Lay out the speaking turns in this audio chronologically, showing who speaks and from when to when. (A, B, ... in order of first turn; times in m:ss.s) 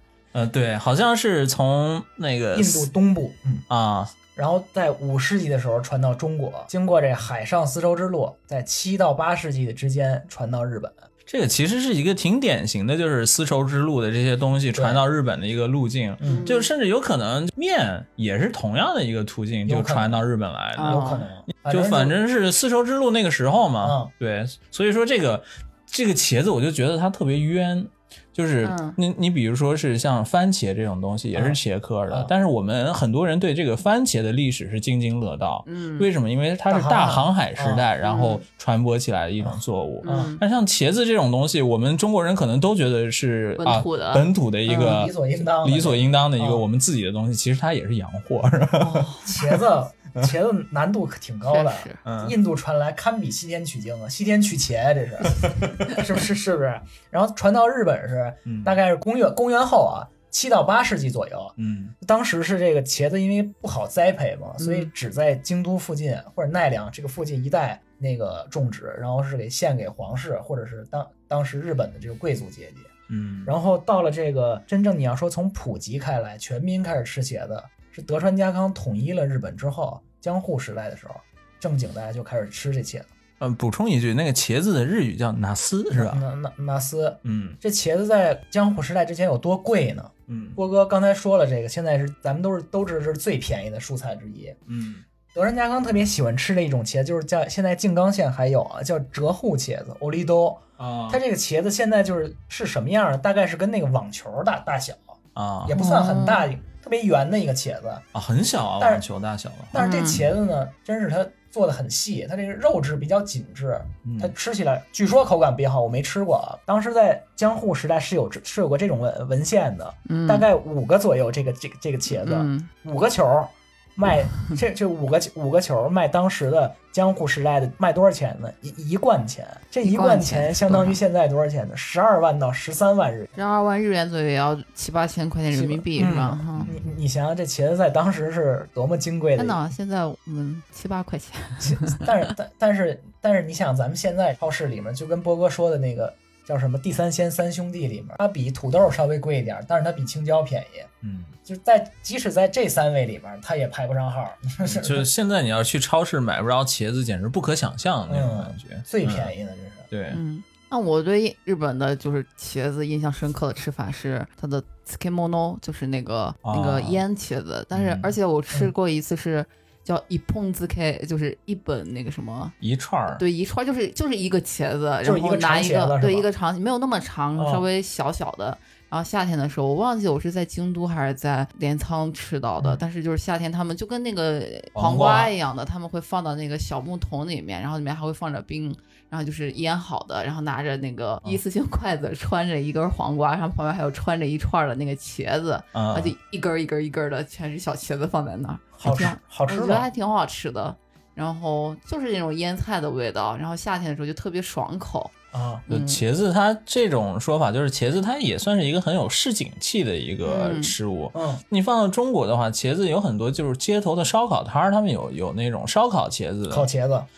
0:00.3-0:02.9 A
0:02.5-0:03.6 B
0:03.7-0:04.1 A
0:04.3-0:11.0 B
0:11.2-0:49.6 A
0:14.7-0:15.0 B
0:16.2-0:16.4 B
0:16.2-0:16.7 C
0:19.6-0:20.2 B
0:20.8-0:21.2 C
0:20.8-0:22.2 B
0:23.8-0:24.1 B
0:28.6-0:29.0 C
0:31.3-0:32.3 B
0:35.6-0:36.1 C
0:36.7-0:37.8 B
0:38.0-0:38.4 C
0:39.4-0:40.3 B
0:40.0-0:40.4 C
0:43.6-0:45.1 C
0:44.7-0:46.6 B
0:48.8-0:49.3 C
0:49.2-1:12.9 B
0:51.5-0:52.0 C
0:52.0-0:52.4 A
0:55.5-0:55.9 C
0:58.4-0:58.8 A
1:01.6-1:01.9 A
1:04.6-1:04.9 C
1:13.1-1:13.5 A
1:13.4-1:23.1 B
1:23.4-1:26.2 A
1:25.9-1:34.6 B
1:27.2-1:27.6 A
1:30.3-1:30.6 A
1:34.7-1:35.0 A
1:35.3-1:48.0 B
1:40.8-1:41.2 A
1:45.3-1:45.7 A
1:45.7-1:46.5 C
1:48.1-1:49.7 A
1:48.8-1:49.0 B
1:49.7-2:13.3 B
1:49.8-1:50.3 C
1:54.0-1:54.3 A
2:00.0-2:00.4 C
2:02.1-2:02.7 C
2:09.8-2:11.0 C
2:13.3-2:16.6 C
2:15.5-2:19.6 B
2:16.5-2:16.8 A
2:19.4-2:22.0 C
2:21.6-2:30.9 B
2:31.0-2:31.4 A
2:31.5-2:35.1 B
2:34.6-2:39.3 A
2:38.1-2:39.9 B
2:39.9-2:40.2 A
2:40.1-2:52.5 C
2:46.4-2:47.0 A
2:47.7-2:48.1 A
2:52.6-2:53.2 A
2:53.2-3:25.1 C
2:55.0-2:56.3 B
2:57.4-2:57.6 B
3:04.8-3:05.3 A
3:15.7-3:16.1 A
3:18.8-3:19.9 B
3:25.3-3:25.6 B
3:25.7-3:26.0 C
3:25.7-3:36.7 A
3:30.2-3:30.7 C
3:31.1-3:31.4 B
3:36.5-3:37.1 B